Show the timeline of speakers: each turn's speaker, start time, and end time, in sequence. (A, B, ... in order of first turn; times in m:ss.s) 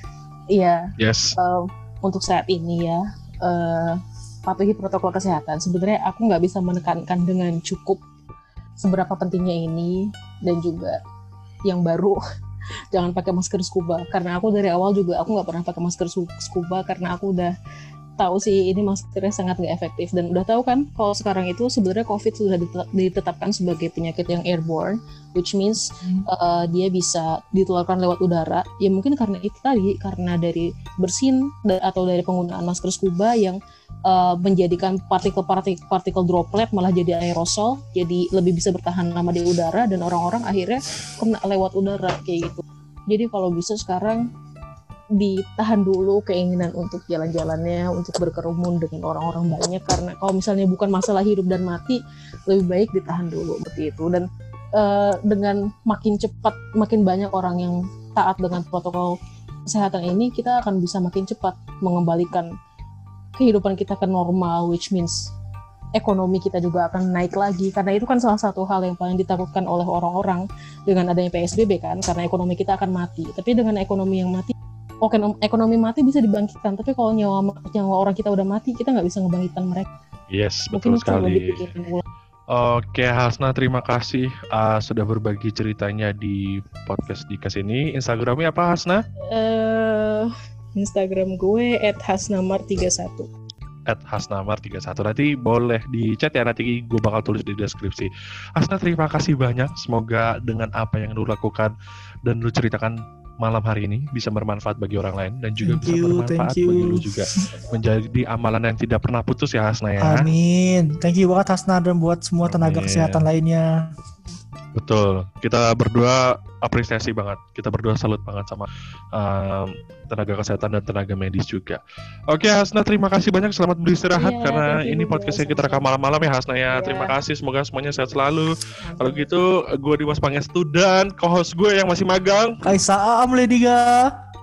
0:00.5-0:08.0 A
0:01.0-0:01.3 B
0:08.8-0:11.0 A
0:11.7-0:12.2 A
0:12.9-0:17.5 A
0:18.2-0:44.3 A
0:45.2-1:02.5 A
1:03.4-1:05.3 A
1:06.0-1:14.5 A
1:15.0-1:19.9 A
1:20.3-1:21.6 B
1:20.7-1:22.0 A
1:22.5-1:29.0 B
1:29.3-1:33.3 A
1:33.9-1:41.7 B
1:42.3-1:50.3 B
1:45.6-1:47.2 C
1:50.0-1:53.8 C
1:52.4-1:53.3 B
1:54.8-2:12.6 B
2:04.1-2:05.9 A
2:06.7-2:07.2 A
2:08.8-2:09.3 A
2:12.6-2:14.1 C